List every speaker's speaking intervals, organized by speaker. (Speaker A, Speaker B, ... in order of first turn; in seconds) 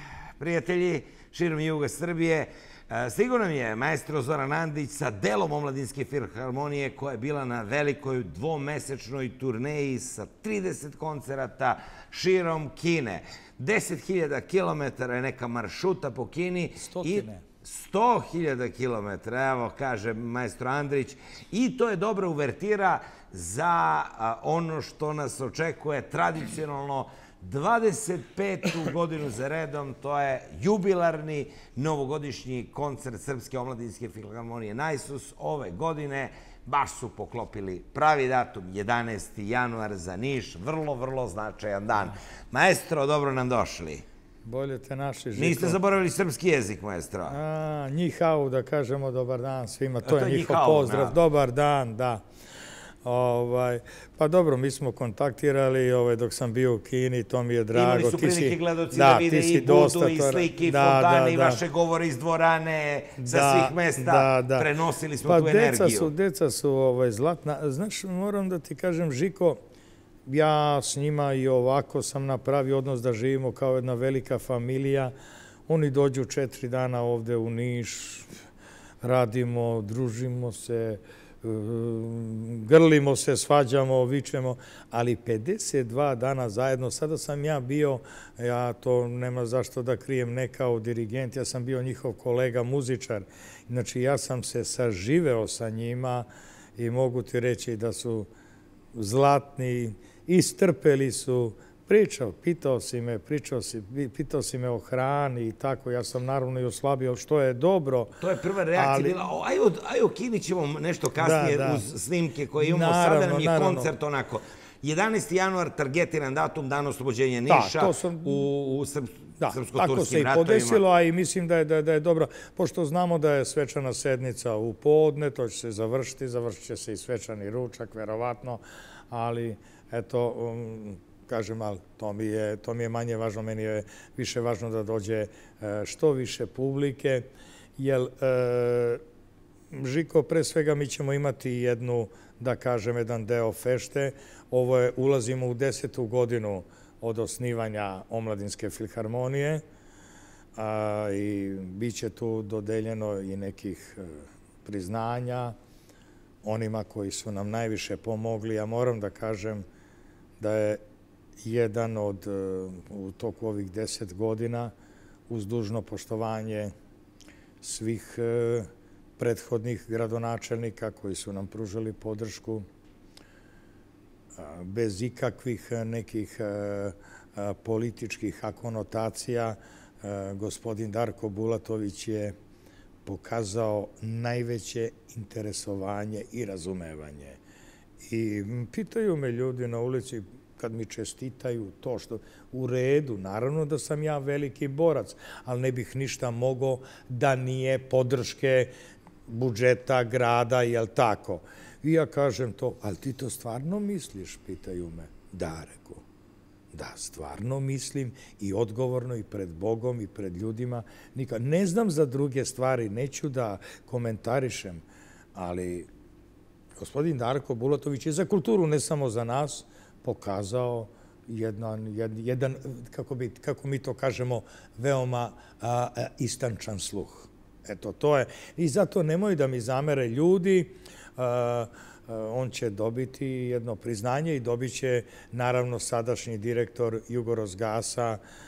Speaker A: 0.4-44.0, 45.3-47.4, 50.0-51.2, 57.7-66.1, 108.2-120.8
Speaker B: 16.8-17.4, 44.4-45.8, 47.3-52.2, 53.0-61.6, 63.2-64.7, 65.2-69.6, 70.3-75.1, 75.7-78.2, 79.0-96.2, 96.8-98.3, 98.9-108.2, 108.7-109.2, 111.2-111.8, 112.6-113.9, 117.5-118.5, 119.4-137.3, 137.8-139.0, 139.7-149.6, 150.6-155.5, 156.4-159.6, 160.4-160.8, 161.4-164.7, 165.3-166.7, 167.6-172.7, 174.4-182.3, 183.0-187.4, 188.0-198.7, 199.3-206.0, 206.7-214.8, 215.3-215.9, 216.8-238.2